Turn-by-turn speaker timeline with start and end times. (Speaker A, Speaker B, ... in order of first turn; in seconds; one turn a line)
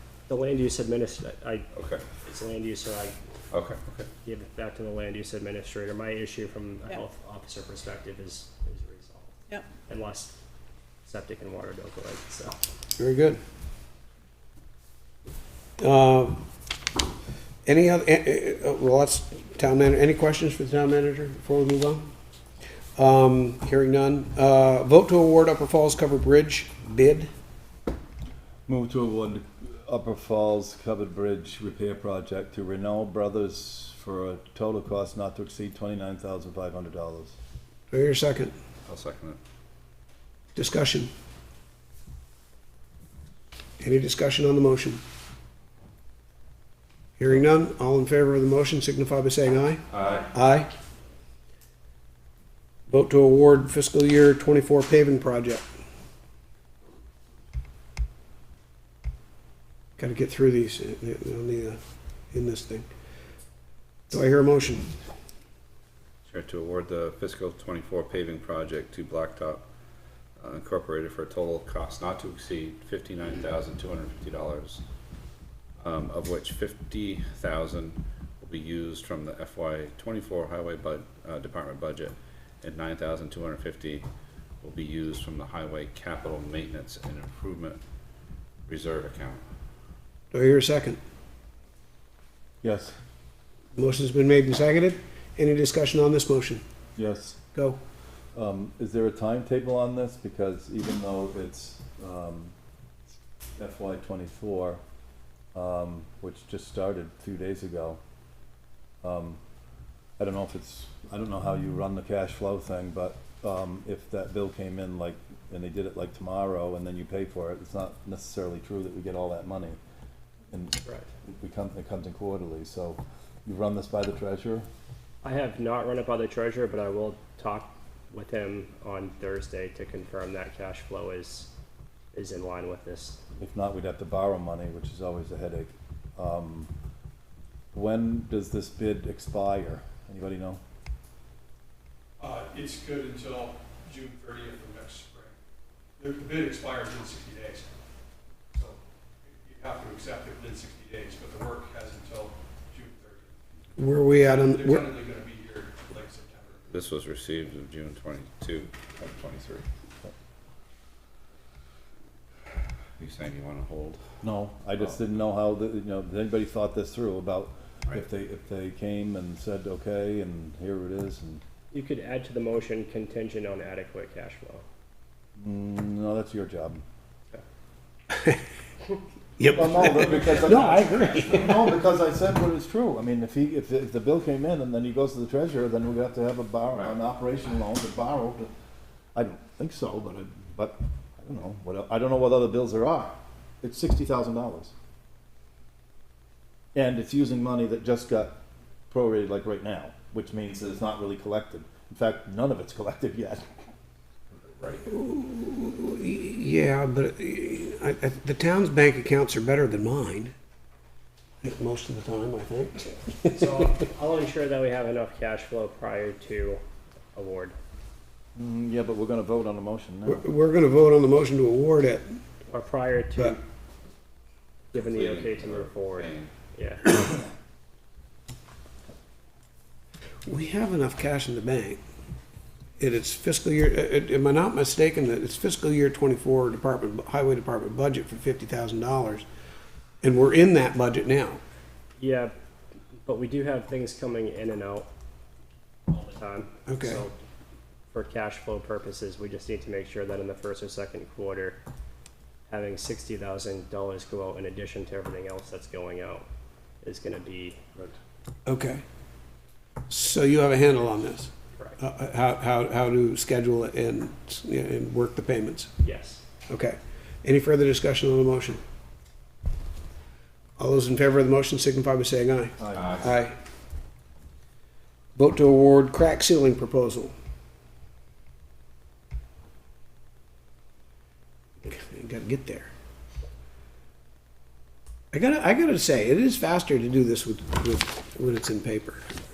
Speaker A: 0.3-1.7
Speaker B: 1.7-2.0
Speaker A: 2.2-3.1
Speaker B: 3.5-4.1
Speaker A: 4.2-10.3
Speaker A: 11.1-12.6
Speaker C: 13.0-13.4
Speaker C: 15.8-16.4
Speaker C: 17.6-22.1
Speaker C: 22.9-27.3
Speaker D: 28.7-37.4
Speaker C: 37.9-38.5
Speaker B: 38.9-39.4
Speaker C: 40.5-41.1
Speaker C: 43.8-45.0
Speaker C: 47.2-50.7
Speaker B: 49.9-50.3
Speaker C: 52.9-55.6
Speaker C: 60.0-61.8
Speaker C: 62.3-62.9
Speaker C: 64.1-64.9
Speaker B: 66.2-69.7
Speaker B: 70.4-74.8
Speaker B: 75.8-84.1
Speaker B: 84.6-87.8
Speaker B: 88.7-89.4
Speaker C: 90.3-91.0
Speaker D: 92.6-93.0
Speaker C: 93.7-96.6
Speaker D: 97.0-97.4
Speaker D: 98.3-102.5
Speaker D: 103.6-104.8
Speaker D: 105.5-108.0
Speaker D: 109.0-109.4
Speaker D: 110.2-119.8
Speaker D: 120.5-124.7
Speaker A: 125.2-131.5
Speaker A: 132.1-133.2
Speaker D: 133.4-136.7
Speaker D: 137.7-140.6
Speaker E: 142.2-145.4
Speaker E: 146.0-147.8
Speaker E: 148.5-153.3
Speaker C: 153.8-154.9
Speaker E: 154.2-156.6
Speaker B: 156.7-159.7
Speaker B: 163.0-164.0
Speaker D: 164.2-171.4
Speaker A: 171.7-174.6
Speaker D: 175.4-176.8
Speaker C: 179.4-181.7
Speaker D: 179.4-188.5
Speaker A: 179.5-180.0
Speaker B: 180.0-181.6
Speaker B: 186.7-187.0
Speaker D: 189.1-194.7
Speaker D: 196.7-203.4
Speaker B: 204.6-204.8
Speaker C: 204.8-210.3
Speaker C: 211.4-213.6
Speaker A: 213.3-216.6
Speaker A: 217.1-217.6
Speaker D: 218.3-220.2
Speaker C: 220.1-222.2
Speaker A: 222.5-223.4
Speaker B: 224.7-226.3
Speaker A: 224.7-227.0
Speaker C: 230.2-231.8
Speaker C: 232.8-239.2
Speaker C: 240.0-241.4
Speaker A: 242.0-242.3
Speaker A: 243.0-244.9
Speaker A: 245.9-247.2
Speaker C: 246.7-247.0
Speaker A: 247.9-251.6
Speaker A: 252.5-256.2
Speaker A: 256.8-257.6
Speaker C: 258.4-258.8
Speaker C: 259.9-265.7
Speaker A: 265.8-266.2
Speaker C: 266.5-268.6
Speaker C: 270.6-273.3
Speaker D: 272.6-273.0
Speaker B: 272.7-273.2
Speaker C: 275.1-277.1
Speaker C: 281.6-282.7
Speaker C: 285.1-289.1